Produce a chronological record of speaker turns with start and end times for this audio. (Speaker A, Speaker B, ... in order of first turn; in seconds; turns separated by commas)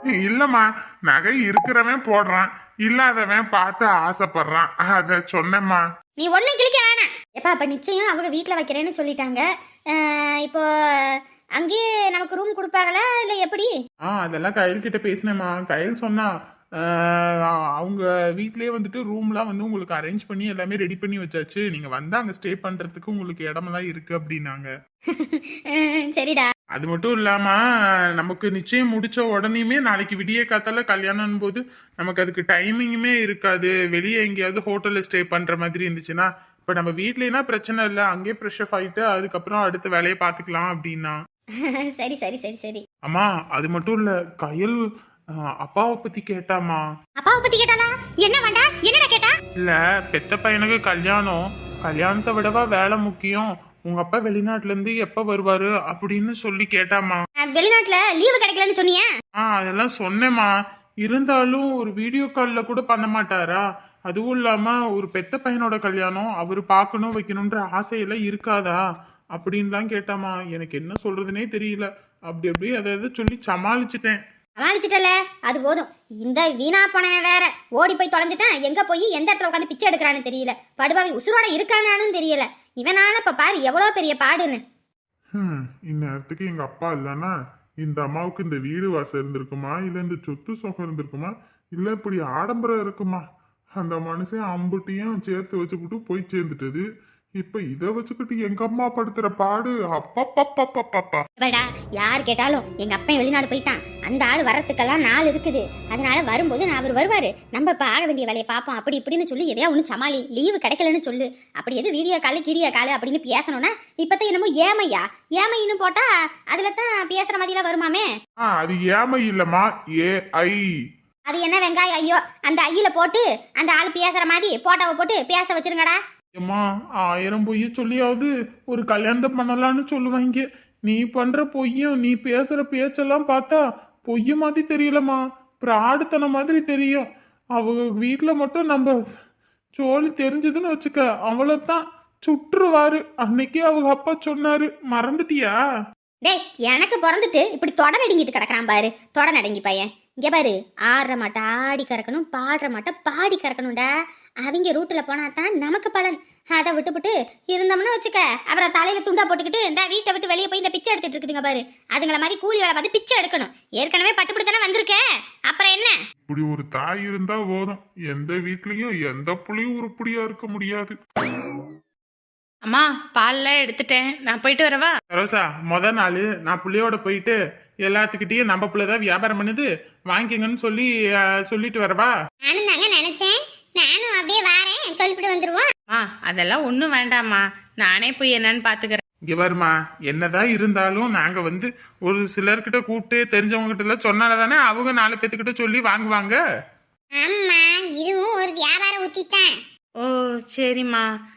Speaker A: 0.3-0.6, Speaker B: 0.3-5.8, Speaker C: 6.2-13.7, Speaker B: 14.0-24.7, Speaker C: 25.2-26.5, Speaker B: 26.7-27.6, Speaker B: 28.2-41.1, Speaker C: 41.6-42.8, Speaker B: 43.1-44.8, Speaker B: 45.6-46.8, Speaker C: 47.2-49.4, Speaker B: 49.6-57.2, Speaker C: 57.4-59.1, Speaker B: 59.4-60.5, Speaker B: 61.0-68.8, Speaker B: 69.3-74.2, Speaker C: 74.6-84.6, Speaker A: 85.4-93.2, Speaker A: 93.8-96.8, Speaker A: 97.4-101.2, Speaker C: 101.4-118.1, Speaker A: 118.6-120.6, Speaker C: 121.3-126.0, Speaker B: 126.4-138.9, Speaker B: 139.8-145.6, Speaker C: 146.2-153.9, Speaker C: 154.4-165.9, Speaker A: 166.3-171.0, Speaker D: 172.7-174.9, Speaker B: 175.1-180.9, Speaker B: 181.5-182.1, Speaker C: 182.4-185.7, Speaker D: 185.9-189.0, Speaker B: 189.3-196.4, Speaker C: 197.1-199.5, Speaker D: 200.0-201.1